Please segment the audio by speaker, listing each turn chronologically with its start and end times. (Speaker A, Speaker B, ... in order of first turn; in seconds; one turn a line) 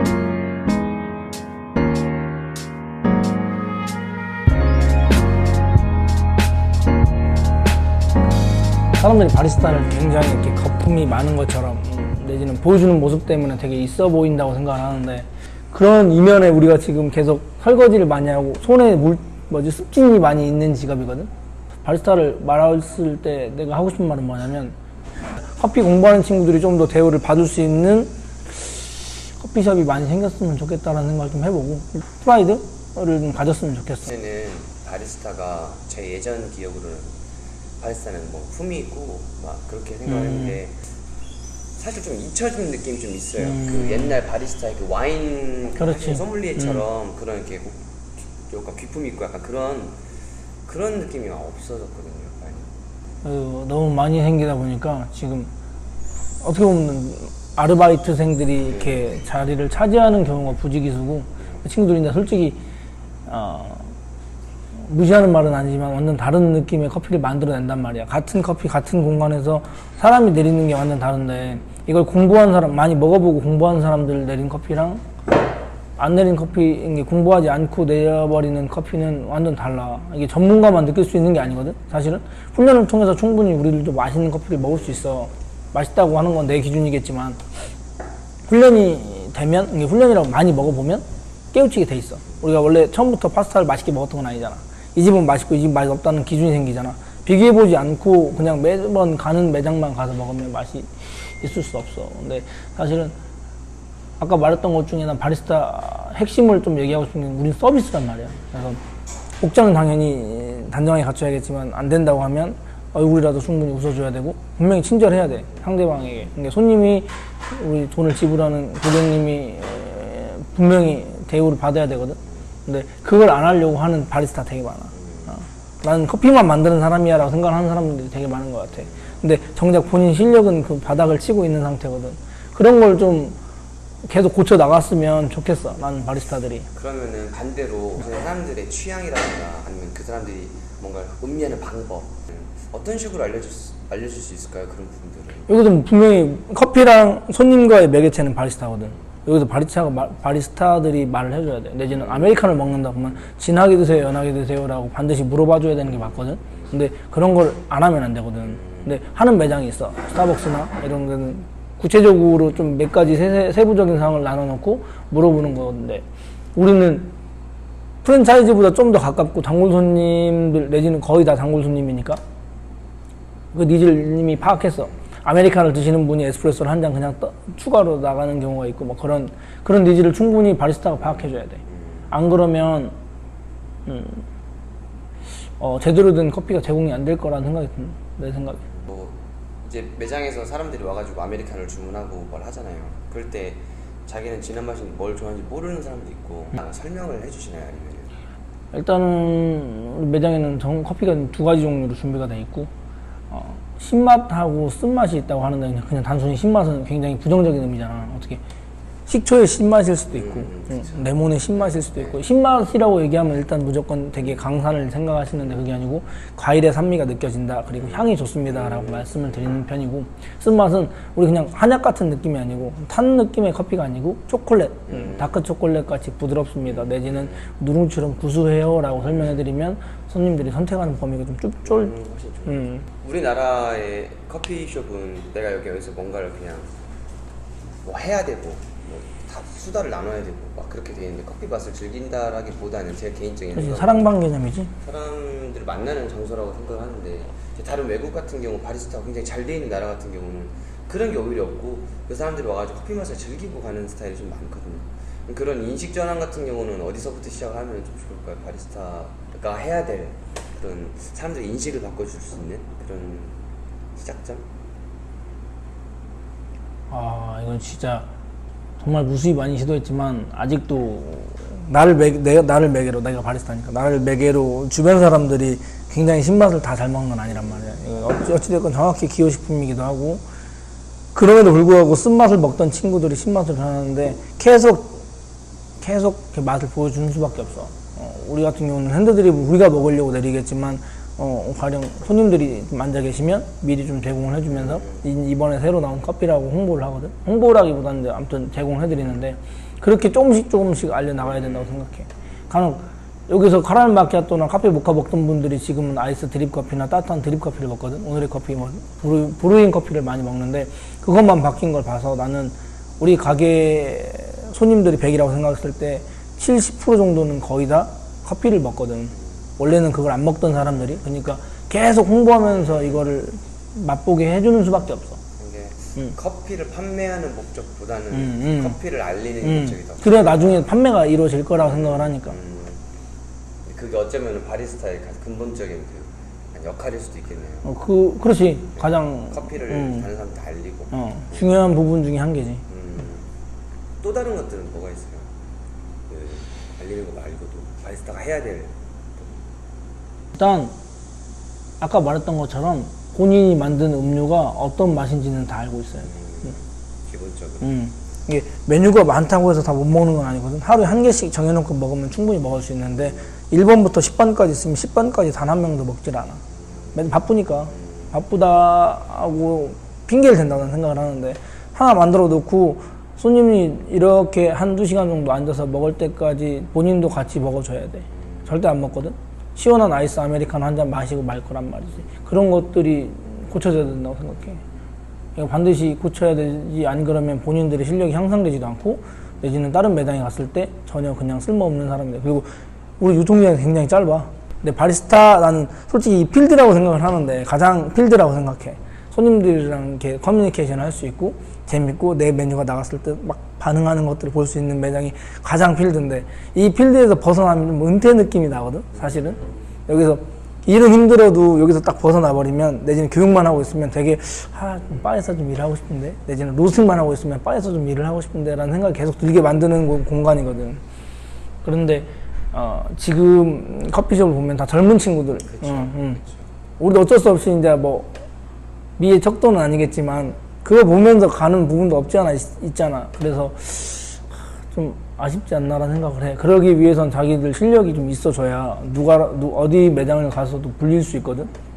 Speaker A: 9.0-21.3
Speaker A: 21.8-24.8
Speaker A: 25.3-34.1
Speaker B: 34.0-37.1
Speaker B: 37.8-40.9
Speaker A: 40.1-40.6
Speaker B: 41.8-50.0
Speaker A: 43.4-44.2
Speaker A: 45.8-46.8
Speaker B: 50.6-52.8
Speaker A: 53.2-55.5
Speaker A: 56.4-62.6
Speaker B: 58.7-59.0
Speaker A: 63.3-64.0
Speaker A: 64.8-75.0
Speaker A: 76.0-87.4
Speaker A: 88.5-103.2
Speaker A: 104.2-108.8
Speaker A: 109.4-133.4
Speaker A: 134.1-136.7
Speaker B: 136.7-145.5
Speaker A: 145.5-167.1
Speaker B: 152.0-152.5
Speaker A: 168.0-172.2
Speaker A: 173.5-182.9
Speaker B: 181.7-182.1
Speaker A: 183.9-184.2
Speaker A: 185.6-188.6
Speaker B: 188.7-198.2
Speaker A: 198.7-202.7
Speaker A: 203.3-208.4
Speaker A: 209.1-231.9
Speaker B: 210.1-211.1
Speaker B: 218.6-219.1
Speaker B: 224.9-225.3
Speaker B: 226.7-227.4
Speaker B: 231.7-236.7
Speaker A: 232.5-232.9
Speaker B: 237.8-244.1
Speaker A: 243.5-244.7
Speaker B: 244.8-263.4
Speaker B: 264.0-264.4
Speaker A: 266.9-268.1
Speaker A: 268.8-280.2
Speaker B: 277.4-277.8
Speaker A: 281.1-285.1
Speaker A: 285.8-325.2
Speaker B: 294.5-295.0
Speaker B: 301.4-301.7
Speaker B: 322.5-323.0
Speaker B: 325.4-330.7
Speaker A: 328.1-328.8
Speaker A: 329.4-332.4
Speaker B: 331.6-332.8
Speaker B: 333.6-337.7
Speaker A: 337.6-340.1
Speaker B: 338.8-341.6
Speaker A: 340.9-342.6
Speaker B: 342.7-343.3
Speaker B: 344.0-345.3
Speaker B: 346.1-349.3
Speaker A: 350.4-350.7
Speaker A: 351.8-356.1
Speaker B: 356.1-357.8
Speaker A: 357.6-366.4
Speaker A: 366.9-384.6
Speaker A: 385.4-392.5
Speaker A: 393.0-420.8
Speaker A: 421.6-426.2
Speaker B: 425.5-426.5
Speaker A: 426.8-428.1
Speaker A: 429.0-441.5